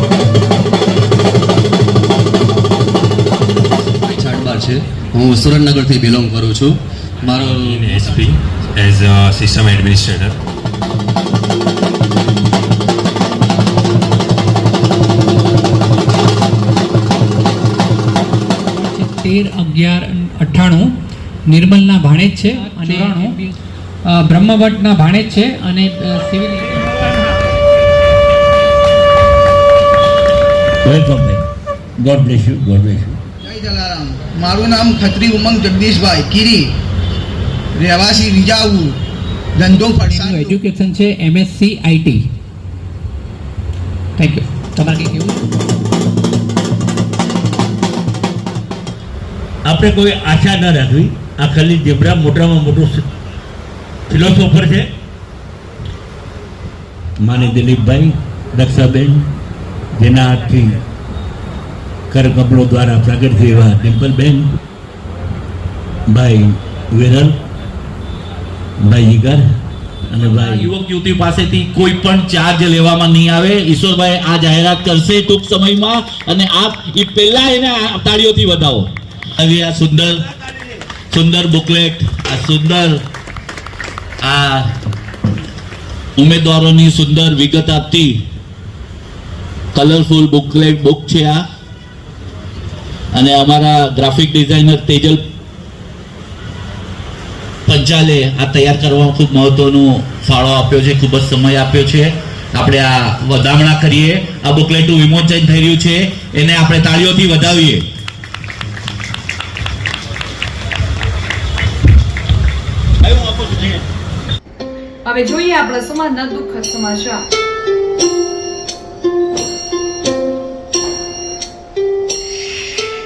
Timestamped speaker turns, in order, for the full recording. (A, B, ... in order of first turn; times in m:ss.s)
0:04.0-0:08.2 A
0:07.4-0:10.4 B
0:18.7-0:20.9 C
0:21.5-0:23.5 C
0:24.1-0:26.9 C
0:30.8-0:31.4 D
0:32.0-0:33.2 D
0:33.4-0:36.6 E
0:37.8-0:39.0 E
0:39.6-0:40.6 E
0:40.0-0:42.2 C
0:44.2-0:45.4 C
0:49.6-0:53.0 D
0:54.1-0:54.9 D
0:57.2-0:59.3 D
1:00.0-1:00.8 D
1:02.1-1:04.5 D
1:06.1-1:07.4 D
1:08.8-1:09.6 D
1:10.1-1:10.7 D
1:10.2-1:20.2 F
1:21.1-1:23.0 F
1:24.2-1:24.7 F
1:26.2-1:28.2 F
1:29.7-1:31.4 F
1:33.1-1:35.2 F
1:37.7-1:47.8 F
1:53.0-1:53.8 F
1:55.0-1:57.2 G